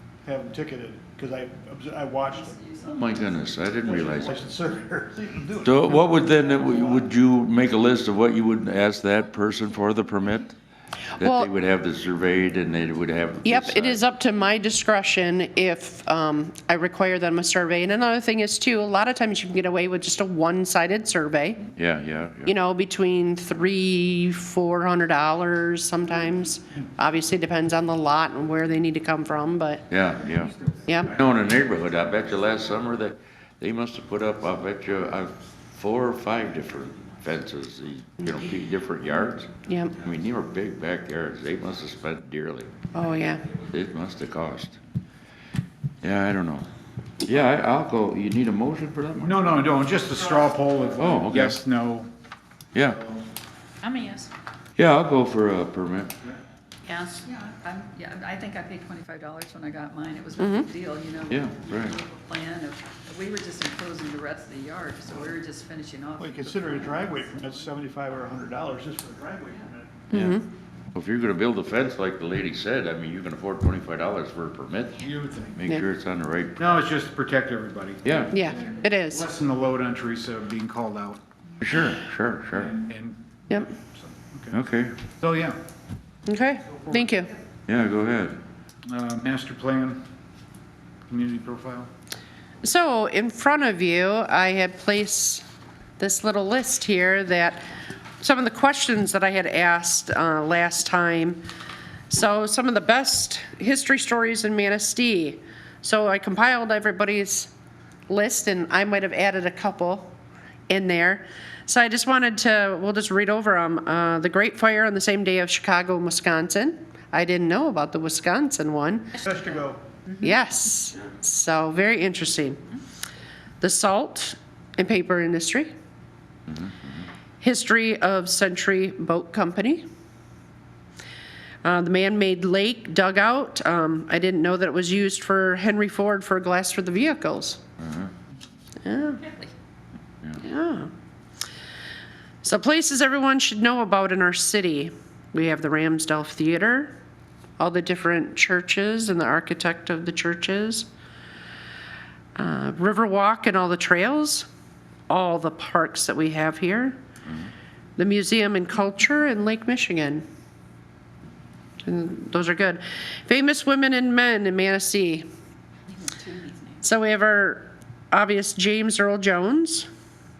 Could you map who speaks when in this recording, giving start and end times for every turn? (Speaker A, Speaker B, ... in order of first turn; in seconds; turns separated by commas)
Speaker A: 0.2-2.6, Speaker B: 2.3-4.2, Speaker C: 2.8-4.4, Speaker A: 3.8-7.1, Speaker C: 5.6-10.5, Speaker D: 11.2-11.5, Speaker C: 11.2-14.0, Speaker D: 13.4-21.7, Speaker C: 21.7-22.5, Speaker D: 22.4-29.9, Speaker C: 29.9-30.5, Speaker D: 30.9-31.1, Speaker C: 31.1-42.8, Speaker D: 39.6-40.0, Speaker D: 42.9-43.4, Speaker C: 43.6-44.8, Speaker C: 46.0-46.7, Speaker C: 47.2-49.6, Speaker E: 49.2-52.1, Speaker C: 51.0-51.6, Speaker C: 52.7-53.1, Speaker F: 53.8-54.3, Speaker C: 54.8-56.2, Speaker F: 56.8-57.2, Speaker B: 57.2-67.7, Speaker D: 60.4-60.7, Speaker C: 61.3-62.0, Speaker A: 66.2-70.0, Speaker D: 70.1-70.5, Speaker C: 70.9-76.6, Speaker E: 75.0-75.6, Speaker E: 76.6-81.2, Speaker C: 78.0-78.3, Speaker D: 78.3-79.3, Speaker C: 81.6-82.8, Speaker E: 82.7-84.5, Speaker C: 84.5-84.9, Speaker E: 85.2-85.6, Speaker D: 86.3-87.3, Speaker C: 87.7-88.4, Speaker E: 88.9-90.0, Speaker E: 91.1-91.9, Speaker D: 92.6-95.4, Speaker D: 96.0-97.6, Speaker D: 98.2-101.4, Speaker D: 102.1-107.5, Speaker D: 108.1-110.1, Speaker D: 110.7-119.2, Speaker A: 119.2-119.8, Speaker F: 119.2-119.5, Speaker F: 120.1-120.4, Speaker D: 120.2-122.6, Speaker D: 123.6-125.7, Speaker C: 126.5-127.1, Speaker D: 127.4-129.8, Speaker D: 131.6-137.6, Speaker C: 137.8-138.1, Speaker D: 138.8-139.2, Speaker D: 140.4-140.9, Speaker D: 142.4-146.9, Speaker D: 147.6-150.9, Speaker D: 152.3-154.4, Speaker D: 155.1-157.0, Speaker D: 158.0-160.2, Speaker D: 161.8-165.2, Speaker F: 165.9-166.8, Speaker D: 166.8-169.9